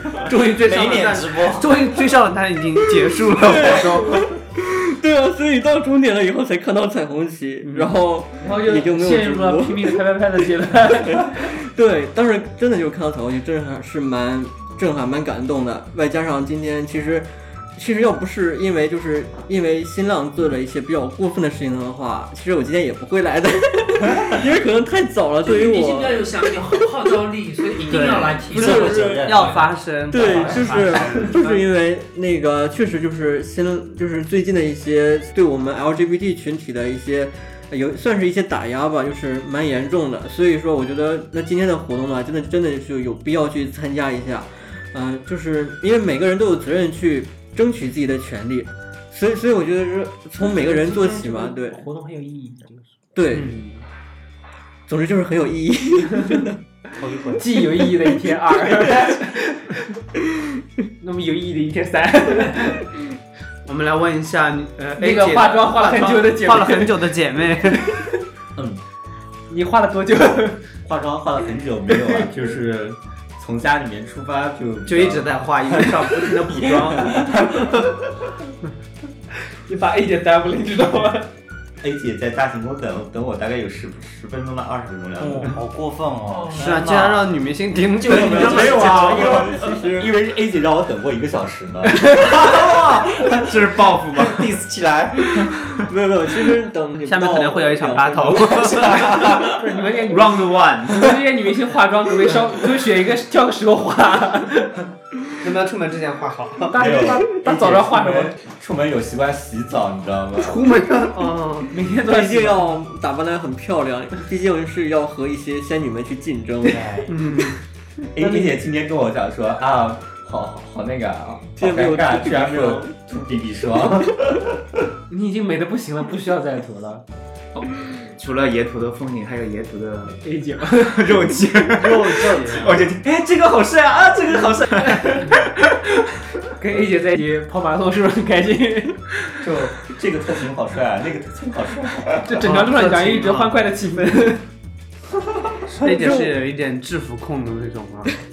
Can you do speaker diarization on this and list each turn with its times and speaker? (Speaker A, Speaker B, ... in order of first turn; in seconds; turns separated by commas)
Speaker A: 0.2-4.2, Speaker B: 0.6-1.9, Speaker C: 3.0-10.0, Speaker A: 7.6-7.9, Speaker D: 8.4-11.5, Speaker C: 11.1-26.8, Speaker E: 25.4-28.9, Speaker A: 27.9-31.6, Speaker C: 28.5-29.5, Speaker B: 28.5-29.6, Speaker C: 30.1-51.9, Speaker D: 30.3-30.9, Speaker D: 50.4-53.8, Speaker C: 53.1-53.6, Speaker A: 53.3-53.6, Speaker C: 54.9-56.5, Speaker B: 57.0-57.4, Speaker D: 57.4-59.6, Speaker D: 61.0-62.8, Speaker A: 63.6-68.0, Speaker D: 64.9-67.0, Speaker F: 68.5-68.8, Speaker D: 69.5-70.6, Speaker F: 70.8-77.3, Speaker A: 74.8-77.3, Speaker D: 79.7-81.3, Speaker F: 81.8-85.5, Speaker B: 85.2-87.3, Speaker E: 86.3-86.7, Speaker A: 86.5-89.1, Speaker F: 88.0-95.5, Speaker B: 88.0-89.2, Speaker C: 88.1-90.1, Speaker G: 93.3-94.6, Speaker C: 95.9-99.1, Speaker A: 97.0-99.2, Speaker F: 99.0-99.3, Speaker D: 99.4-104.8, Speaker G: 100.0-101.2, Speaker A: 105.4-106.9, Speaker D: 106.7-108.3, Speaker F: 106.7-110.7, Speaker A: 110.4-111.7, Speaker D: 111.7-112.8, Speaker C: 111.9-116.9, Speaker B: 116.6-117.1, Speaker A: 117.1-117.6, Speaker F: 118.1-124.5, Speaker C: 121.6-123.0, Speaker D: 125.1-127.0, Speaker G: 127.5-130.2, Speaker D: 130.1-131.3, Speaker G: 130.7-135.7, Speaker F: 131.8-132.7, Speaker D: 134.8-135.3, Speaker D: 136.6-139.0, Speaker F: 139.4-142.4, Speaker D: 142.2-144.4, Speaker A: 142.4-143.6, Speaker A: 145.7-148.1, Speaker C: 145.8-146.3